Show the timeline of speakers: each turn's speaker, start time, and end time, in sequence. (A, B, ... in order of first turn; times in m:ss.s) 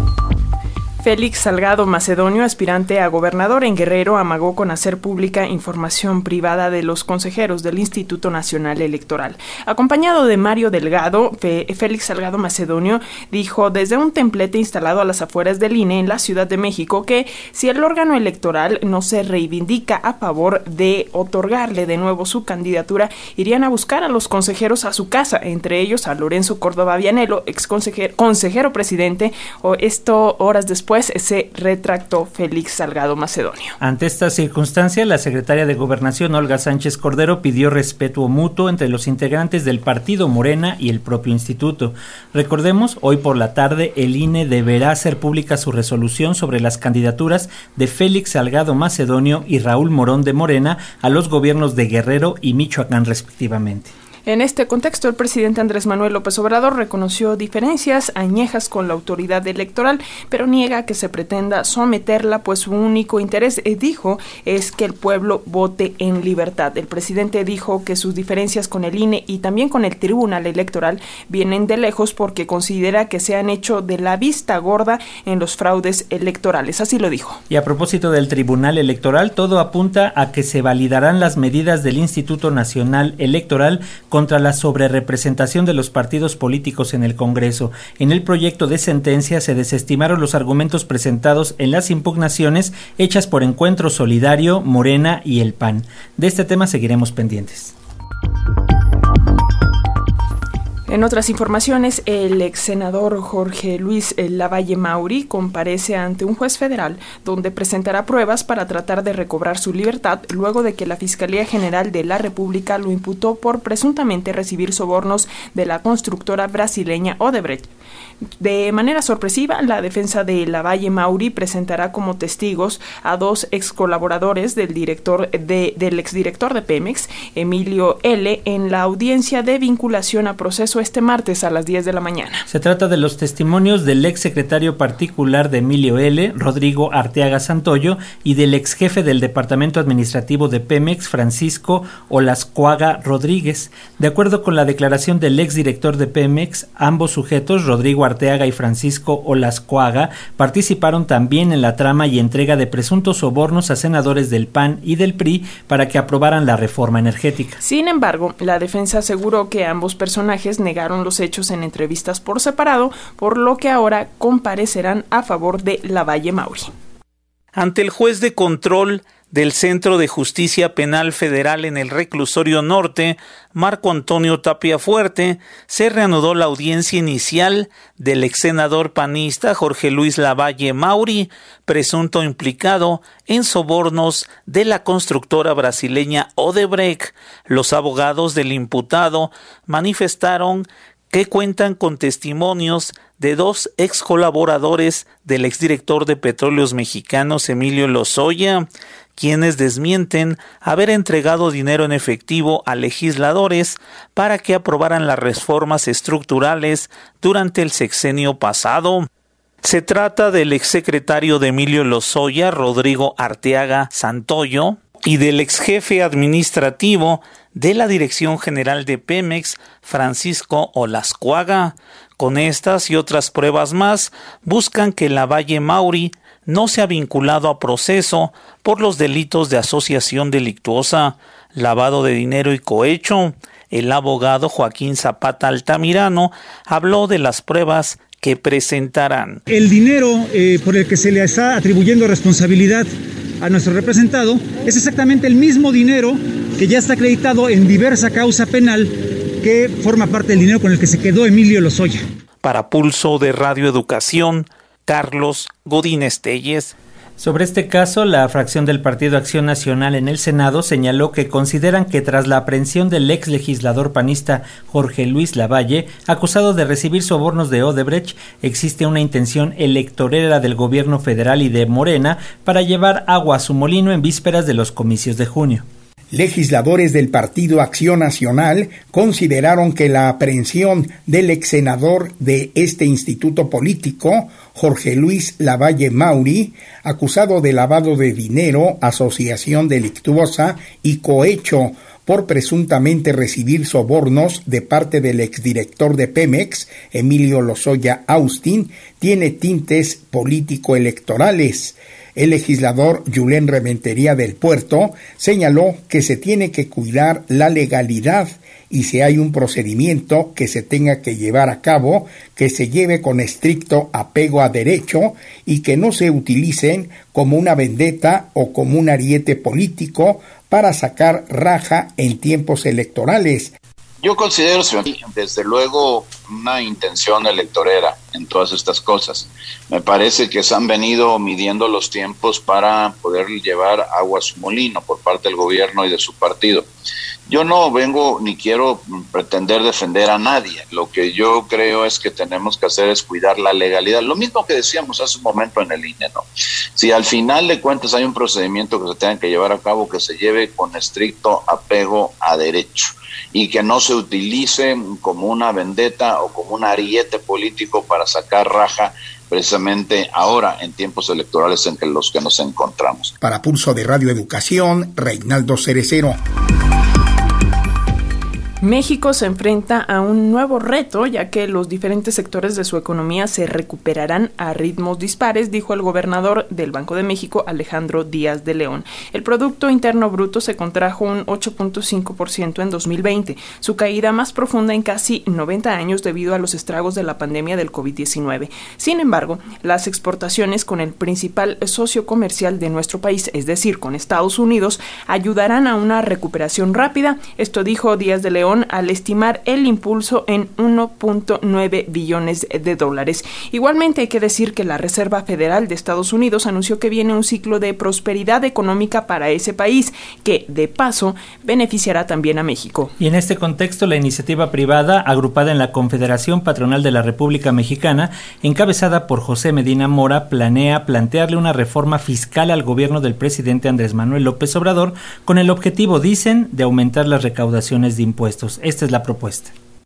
0:01.0-0:33.8 A
0:33.8-0:53.9 B
0:54.2-1:17.4 A
1:17.5-1:37.7 B
1:40.9-1:57.7 A
1:58.4-2:12.4 A
2:12.5-2:37.6 B
2:37.6-2:46.7 A
2:47.5-3:29.1 C
3:29.6-3:59.4 C
3:59.5-4:02.9 D
4:03.4-4:12.0 D
4:12.4-4:16.7 C
4:17.2-4:35.6 B
4:36.1-5:23.5 E
5:24.0-5:36.7 F
5:37.3-6:03.1 F
6:03.2-6:06.2 E
6:08.6-6:52.9 A
6:53.0-7:09.5 B